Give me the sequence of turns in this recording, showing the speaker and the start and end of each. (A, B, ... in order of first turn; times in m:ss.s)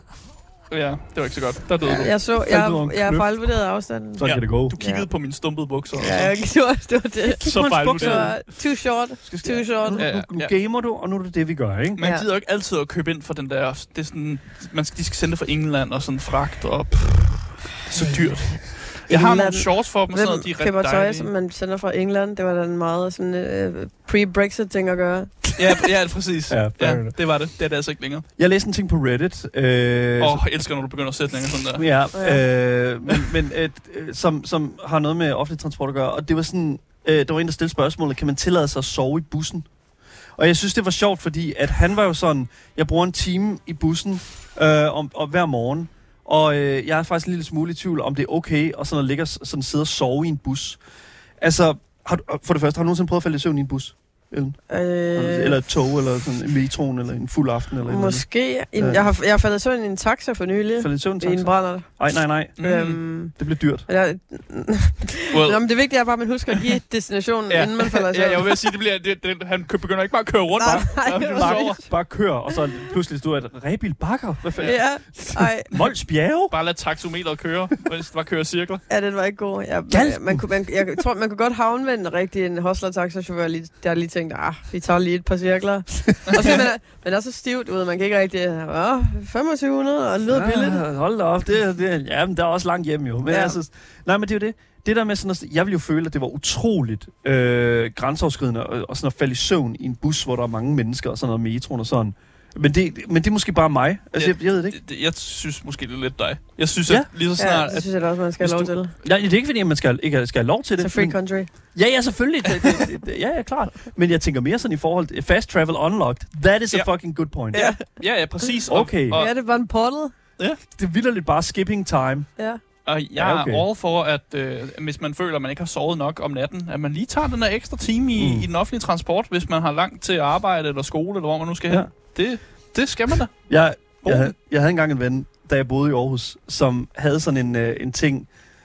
0:00.7-0:02.2 A
0:01.8-0:05.1 B
0:02.3-0:03.4 C
0:04.2-0:04.8 C
0:04.2-0:06.3 A
0:06.0-0:10.0 B
0:07.3-0:08.4 C
0:07.4-0:08.4 A
0:09.2-0:12.0 C
0:10.0-0:10.5 A
0:12.0-0:21.3 A
0:12.0-0:12.2 B
0:19.1-0:25.5 B
0:25.6-0:28.2 A
0:26.5-0:27.2 C
0:28.4-0:30.4 C
0:30.2-0:31.8 A
0:31.8-0:39.7 C
0:32.1-0:32.4 B
0:40.4-0:50.8 C
0:51.4-0:54.6 C
0:54.7-0:55.6 B
0:55.1-0:59.0 C
0:57.9-1:01.9 B
1:00.8-1:02.6 C
1:02.6-1:03.0 A
1:02.6-1:03.4 B
1:03.4-1:03.9 C
1:03.9-1:08.6 B
1:05.3-1:05.6 A
1:07.5-1:11.8 A
1:10.6-1:11.9 B
1:10.6-1:16.5 C
1:14.6-1:15.7 B
1:16.5-1:18.8 A
1:18.9-1:30.8 B
1:19.9-1:20.5 C
1:30.3-1:44.8 C
1:33.3-1:33.6 B
1:44.2-1:47.9 A
1:47.4-1:48.9 B
1:48.4-1:51.2 C
1:50.8-1:51.5 B
1:51.7-1:57.8 C
1:57.5-1:57.8 B
1:57.8-1:59.4 A
1:58.7-1:59.2 C
1:59.1-2:00.1 B
2:00.7-2:02.3 C
2:02.8-2:13.4 A
2:03.2-2:03.6 C
2:08.2-2:08.5 C
2:13.5-2:18.3 C
2:14.0-2:14.3 A